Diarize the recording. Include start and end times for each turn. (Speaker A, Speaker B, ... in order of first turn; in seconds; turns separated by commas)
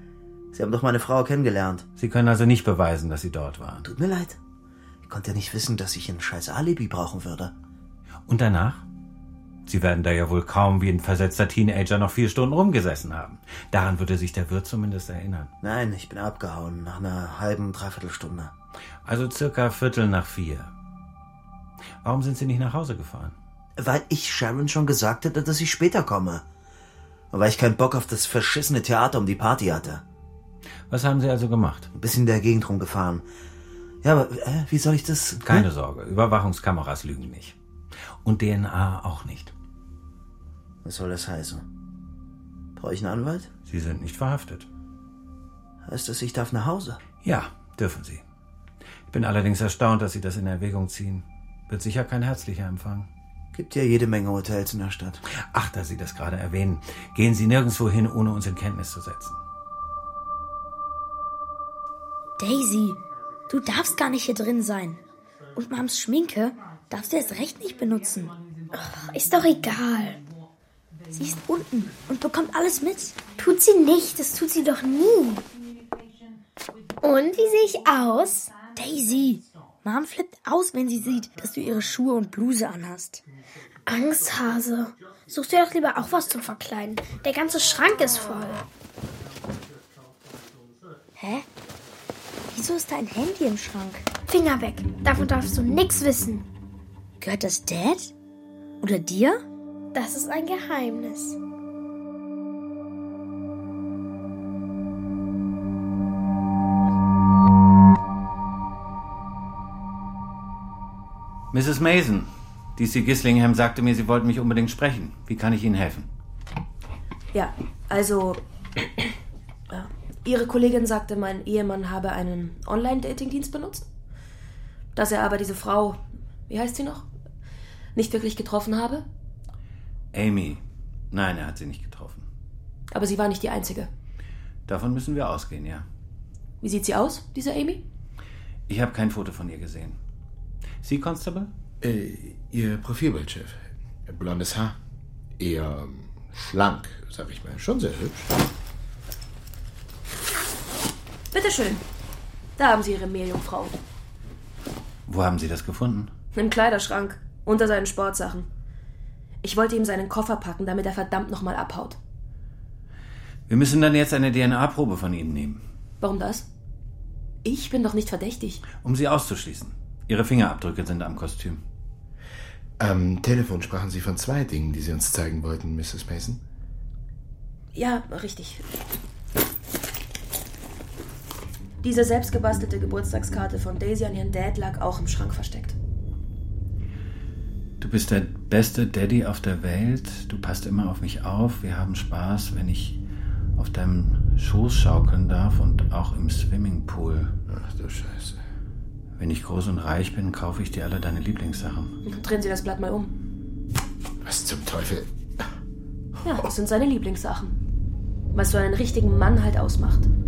Speaker A: 0.5-1.8, Speaker B: 2.0-3.8, Speaker A: 3.8-4.4, Speaker A: 5.0-7.5, Speaker B: 8.3-8.8, Speaker B: 9.7-15.5, Speaker A: 15.6-18.5, Speaker B: 19.0-20.7, Speaker B: 22.0-23.4, Speaker A: 23.8-26.4, Speaker A: 27.3-30.0, Speaker B: 30.9-31.9, Speaker A: 31.9-33.2, Speaker A: 34.0-35.6, Speaker B: 35.4-37.6, Speaker B: 38.2-39.5, Speaker A: 40.8-41.6, Speaker A: 42.8-43.5, Speaker B: 43.7-44.7, Speaker A: 45.8-47.0, Speaker B: 47.2-48.2, Speaker B: 49.1-53.1, Speaker A: 53.5-55.2, Speaker B: 55.3-59.4, Speaker C: 62.4-65.0, Speaker C: 65.5-68.3, Speaker D: 68.7-70.2, Speaker C: 71.1-73.3, Speaker D: 73.2-75.4, Speaker D: 77.0-78.6, Speaker C: 78.7-83.2, Speaker D: 83.9-88.7, Speaker C: 91.2-91.5, Speaker C: 92.5-94.1, Speaker D: 94.3-96.4, Speaker C: 97.2-98.1, Speaker C: 98.8-99.4, Speaker D: 99.9-101.4, Speaker B: 111.5-116.1, Speaker E: 117.3-118.4, Speaker E: 119.7-123.8, Speaker E: 124.9-127.0, Speaker E: 127.9-129.0, Speaker B: 130.1-132.3, Speaker E: 132.9-133.9, Speaker B: 134.7-135.9, Speaker E: 136.6-137.8, Speaker B: 138.7-140.0, Speaker B: 140.8-141.5, Speaker F: 141.8-144.8, Speaker F: 145.4-148.3, Speaker E: 151.3-151.8, Speaker E: 152.6-153.8, Speaker B: 155.1-156.1, Speaker E: 156.3-158.5, Speaker E: 159.4-162.0, Speaker B: 163.5-165.6, Speaker E: 166.0-166.5, Speaker E: 167.4-168.6, Speaker B: 168.8-171.6, Speaker F: 172.8-176.4, Speaker E: 177.7-178.6, Speaker E: 181.8-185.8, Speaker B: 187.8-193.0, Speaker B: 193.6-197.3, Speaker F: 197.5-198.4, Speaker B: 199.2-201.9, Speaker E: 202.0-203.1, Speaker F: 204.2-205.5, Speaker E: 206.2-207.5, Speaker E: 208.3-210.1